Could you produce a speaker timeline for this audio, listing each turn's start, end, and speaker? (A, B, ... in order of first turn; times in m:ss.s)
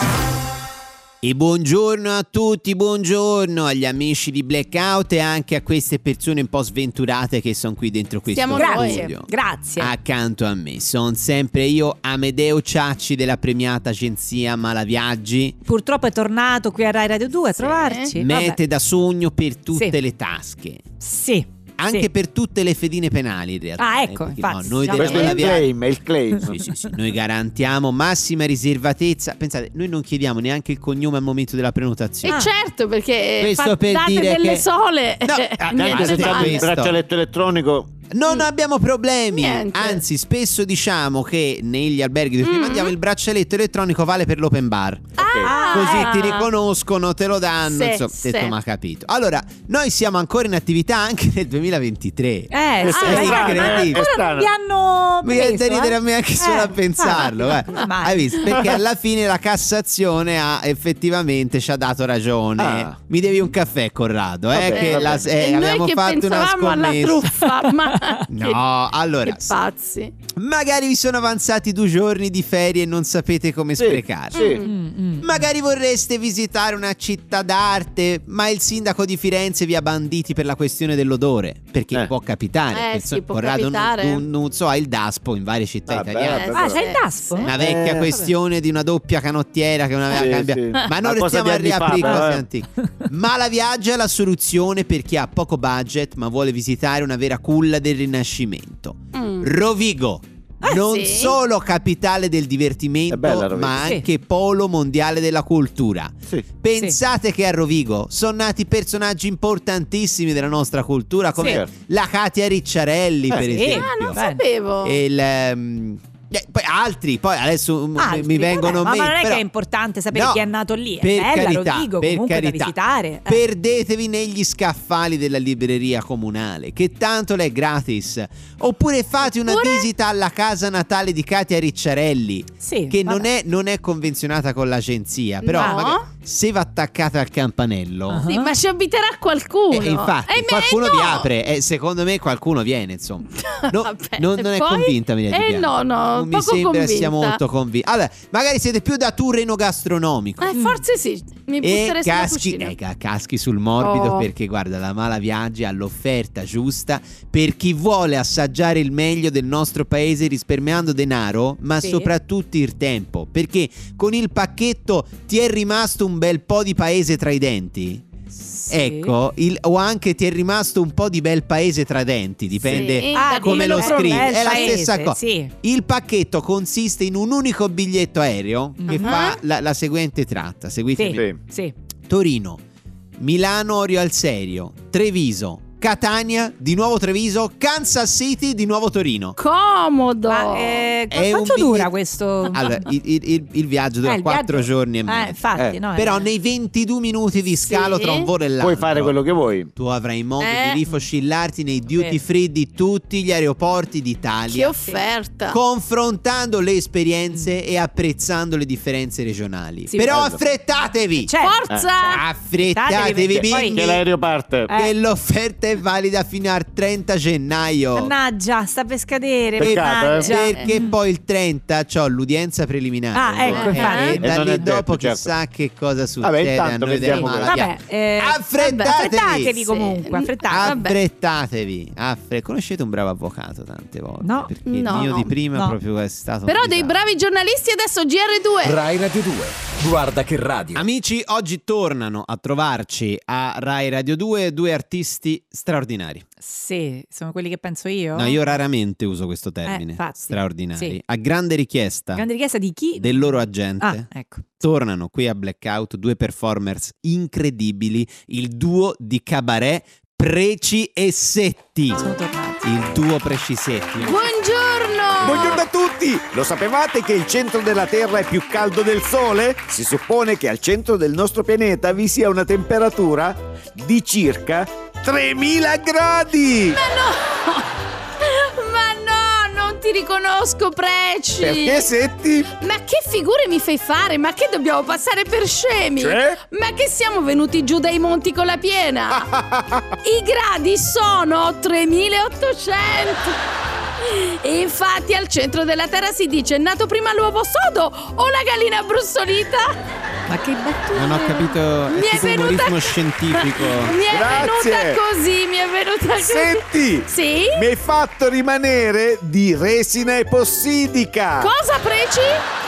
0:01.2-0:15.6 A
0:08.3-0:09.1 B
0:08.6-0:09.9 C
0:15.7-0:18.6 C
0:17.6-0:18.2 B
0:18.2-0:20.8 A
0:21.0-0:22.1 C
0:21.8-0:25.7 A
0:23.8-0:25.6 C
0:24.9-0:26.8 D
0:26.5-0:32.4 A
0:32.2-0:36.7 B
0:32.3-0:32.5 C
0:33.4-0:34.6 A
0:35.2-0:37.0 A
0:35.7-0:38.0 D
0:38.1-0:54.0 A
0:39.3-0:40.0 B
0:42.4-0:42.9 B
0:45.2-0:45.5 D
0:45.2-0:46.5 B
0:45.4-0:46.3 C
0:47.7-0:48.5 B
0:52.5-0:58.6 C
0:52.8-0:54.5 D
0:52.9-0:54.0 B
0:55.2-1:07.5 A
1:02.6-1:03.0 D
1:04.5-1:05.3 D
1:04.7-1:08.6 B
1:07.9-1:08.2 C
1:08.3-1:09.6 A
1:09.2-1:10.1 B
1:10.4-1:14.5 A
1:13.8-1:14.6 D
1:14.3-1:14.7 B
1:14.6-1:15.4 C
1:15.2-1:26.6 A
1:22.7-1:24.2 B
1:25.9-1:26.8 D
1:26.2-1:27.5 B
1:26.5-1:28.3 C
1:27.4-1:54.2 A
1:27.5-1:28.1 D
1:30.1-1:32.4 D
1:39.1-1:39.5 B
1:40.7-1:41.4 B
1:43.1-1:43.9 D
1:43.8-1:44.1 C
1:51.4-1:51.7 D
1:53.4-1:54.4 C
1:53.7-1:55.0 B
1:54.8-1:59.4 A
1:58.0-2:03.4 C
2:00.1-2:00.5 A
2:01.0-2:18.3 A
2:09.5-2:09.9 B
2:12.6-2:13.3 C
2:15.4-2:16.1 B
2:15.6-2:15.8 C
2:18.1-2:18.6 C
2:18.3-2:21.3 B
2:19.7-2:30.6 A
2:23.5-2:27.4 B
2:30.4-2:32.7 B
2:30.5-2:30.8 C
2:31.6-2:48.0 A
2:33.8-2:34.3 B
2:41.8-2:42.1 C
2:48.5-2:49.1 C
2:48.7-3:01.2 A
2:52.6-2:52.9 D
2:52.7-2:54.8 B
2:53.1-2:55.5 C
2:58.8-2:59.2 C
2:58.9-2:59.4 B
3:01.0-3:01.7 C
3:02.1-3:02.6 A
3:03.2-3:09.4 A
3:09.4-3:10.9 B
3:10.3-3:12.9 C
3:11.1-3:11.9 A
3:12.4-3:15.4 A
3:14.0-3:16.3 C
3:15.9-3:19.2 A
3:17.7-3:18.3 B
3:18.6-3:19.7 D
3:19.8-3:24.7 A
3:20.4-3:20.8 B
3:21.9-3:22.2 C
3:24.5-3:25.6 B
3:25.5-3:31.3 A
3:29.9-3:30.2 C
3:30.1-3:30.4 D
3:31.2-3:33.9 C
3:31.4-3:32.2 B
3:32.1-3:34.0 A
3:33.3-3:34.7 D
3:34.7-3:35.0 C
3:34.7-3:38.1 A
3:38.0-3:40.9 C
3:39.6-3:40.3 D
3:39.6-3:49.6 A
3:43.1-3:44.6 C
3:43.4-3:45.3 D
3:43.6-3:44.2 B
3:46.2-3:47.6 D
3:47.1-3:50.9 C
3:48.6-3:49.0 B
3:49.6-3:50.9 B
3:50.5-3:56.9 A
3:54.2-3:55.8 C
3:54.7-3:55.3 B
3:56.5-3:58.8 B
3:58.6-4:00.8 E
4:00.8-4:06.2 A
4:06.4-4:08.4 C
4:08.1-4:12.3 A
4:09.7-4:11.0 C
4:12.2-4:14.4 C
4:13.0-4:14.1 A
4:14.6-4:22.1 A
4:22.0-4:22.7 C
4:22.6-4:24.3 A
4:24.0-4:25.6 B
4:25.2-4:36.8 D
4:25.2-4:25.6 A
4:36.8-4:41.9 B
4:41.4-4:42.5 D
4:42.6-4:49.3 B
4:46.0-4:46.4 D
4:49.1-4:49.9 D
4:50.0-4:53.4 B
4:54.0-4:59.8 B
5:00.3-5:01.5 C
5:00.9-5:04.0 A
5:01.9-5:07.6 B
5:04.0-5:05.0 D
5:06.2-5:11.5 D
5:11.4-5:12.4 B